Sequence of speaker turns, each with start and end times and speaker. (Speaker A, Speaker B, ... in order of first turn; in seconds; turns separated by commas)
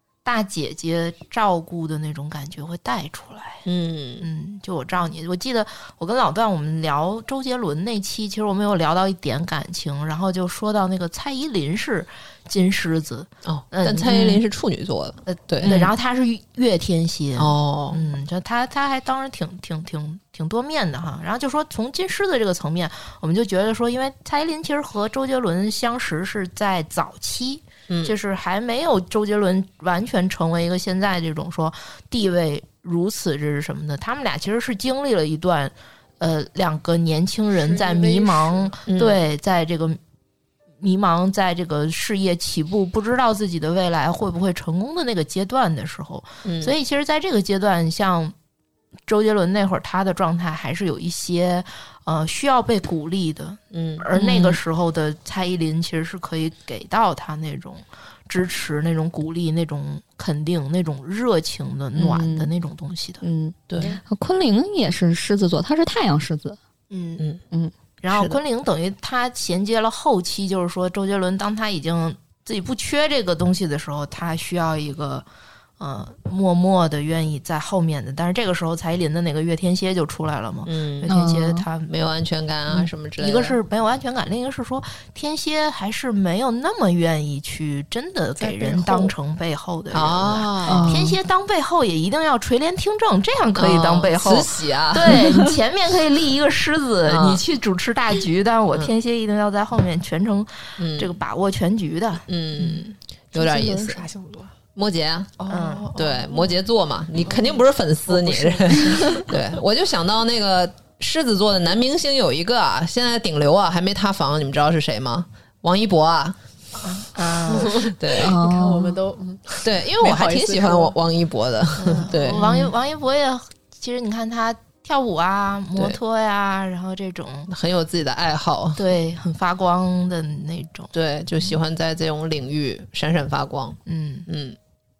Speaker A: 0.2-3.6, Speaker B: 3.6-4.3, Speaker A: 4.2-14.3, Speaker B: 13.4-15.9, Speaker C: 14.1-14.4, Speaker A: 15.3-40.0, Speaker B: 17.4-18.0, Speaker B: 27.9-28.1, Speaker D: 37.5-38.8, Speaker B: 38.9-39.2, Speaker A: 40.8-48.3, Speaker B: 46.4-46.7, Speaker A: 49.1-63.2, Speaker B: 53.7-54.0, Speaker C: 54.1-54.6, Speaker C: 61.9-62.5, Speaker C: 63.2-66.6, Speaker B: 63.7-64.0, Speaker A: 66.9-67.2, Speaker A: 68.0-75.2, Speaker B: 68.1-68.4, Speaker A: 75.8-81.9, Speaker B: 80.6-81.1, Speaker C: 81.1-81.6, Speaker B: 81.9-83.6, Speaker A: 82.7-102.2, Speaker D: 88.4-89.1, Speaker B: 89.9-91.0, Speaker C: 90.7-91.2, Speaker B: 93.6-95.2, Speaker B: 97.0-97.4, Speaker B: 100.8-101.2, Speaker B: 102.3-104.0, Speaker D: 103.3-104.5, Speaker B: 104.7-105.3, Speaker D: 105.4-106.6, Speaker A: 105.5-105.9, Speaker B: 105.9-116.3, Speaker D: 107.2-109.3, Speaker A: 116.9-117.8, Speaker D: 117.5-120.9, Speaker B: 117.8-118.4, Speaker C: 118.2-119.0, Speaker B: 119.6-122.7, Speaker D: 121.8-122.4, Speaker A: 121.8-127.5, Speaker B: 127.5-128.8, Speaker A: 128.8-130.9, Speaker B: 130.9-134.6, Speaker A: 133.9-134.3